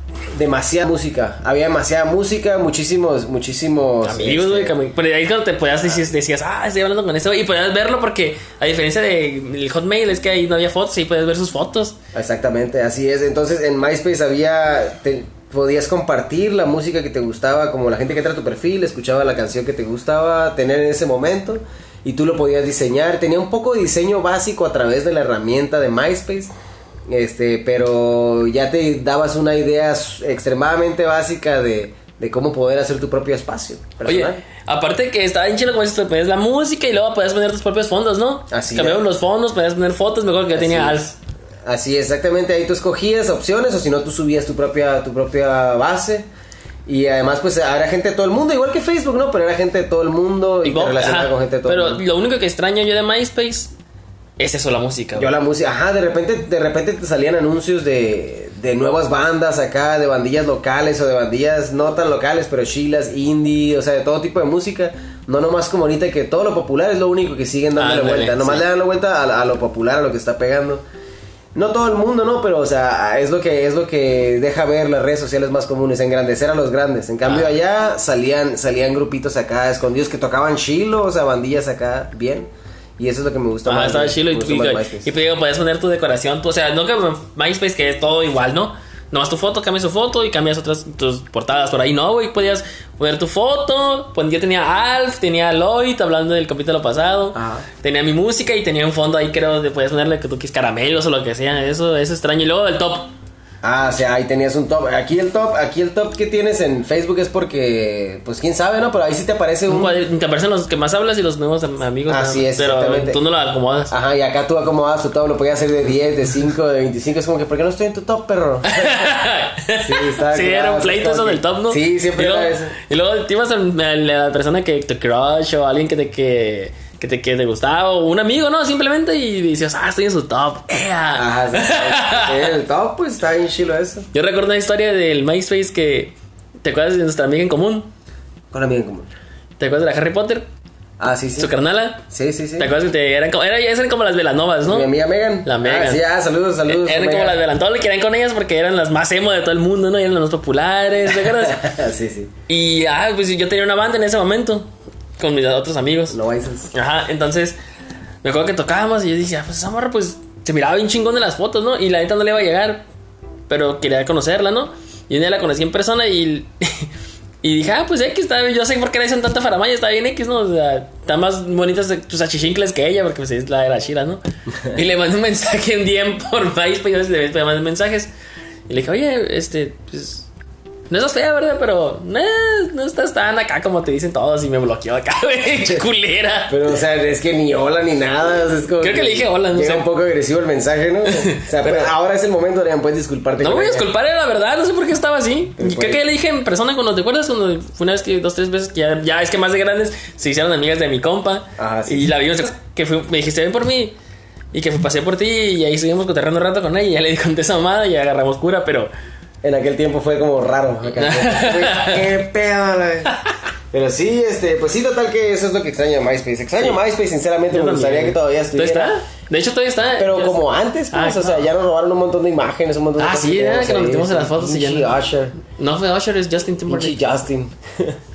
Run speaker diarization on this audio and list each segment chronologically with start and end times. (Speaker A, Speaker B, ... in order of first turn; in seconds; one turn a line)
Speaker A: 0.3-4.8
Speaker B: 4.0-12.0
Speaker A: 12.1-26.5
Speaker A: 27.1-34.4
Speaker B: 34.0-41.1
Speaker A: 38.5-39.1
Speaker A: 40.5-41.1
Speaker A: 41.6-46.3
Speaker A: 46.9-52.0
Speaker B: 50.6-53.7
Speaker B: 54.4-55.4
Speaker A: 55.2-70.8
Speaker B: 67.8-68.7
Speaker A: 71.5-85.1
Speaker B: 77.2-77.5
Speaker B: 83.7-103.1
Speaker A: 97.3-97.7
Speaker A: 103.6-110.0
Speaker B: 109.7-113.9
Speaker A: 112.1-113.2
Speaker A: 113.9-119.1
Speaker B: 118.7-132.5
Speaker A: 119.8-122.8
Speaker A: 131.2-134.1
Speaker B: 134.1-137.9
Speaker A: 138.5-139.1
Speaker B: 139.6-140.5
Speaker A: 141.0-141.5
Speaker B: 141.4-142.1
Speaker A: 142.1-142.7
Speaker B: 142.6-144.9
Speaker A: 144.7-147.4
Speaker B: 145.4-146.0
Speaker B: 146.7-151.7
Speaker A: 151.3-152.3
Speaker B: 152.5-154.7
Speaker B: 155.2-156.2
Speaker A: 156.1-156.7
Speaker B: 156.7-157.6
Speaker B: 158.2-162.9
Speaker B: 163.5-166.9
Speaker B: 167.4-178.1
Speaker B: 178.7-180.3
Speaker B: 180.9-186.7
Speaker A: 186.5-193.9
Speaker B: 188.8-189.9
Speaker B: 191.1-191.9
Speaker B: 193.4-204.0
Speaker A: 195.6-196.0
Speaker A: 201.6-202.1
Speaker B: 204.5-208.9
Speaker A: 209.4-213.2
Speaker B: 211.0-212.1
Speaker A: 213.7-218.9
Speaker B: 217.5-221.5
Speaker A: 220.0-225.3
Speaker B: 223.0-224.9
Speaker B: 225.5-227.0
Speaker A: 226.7-228.0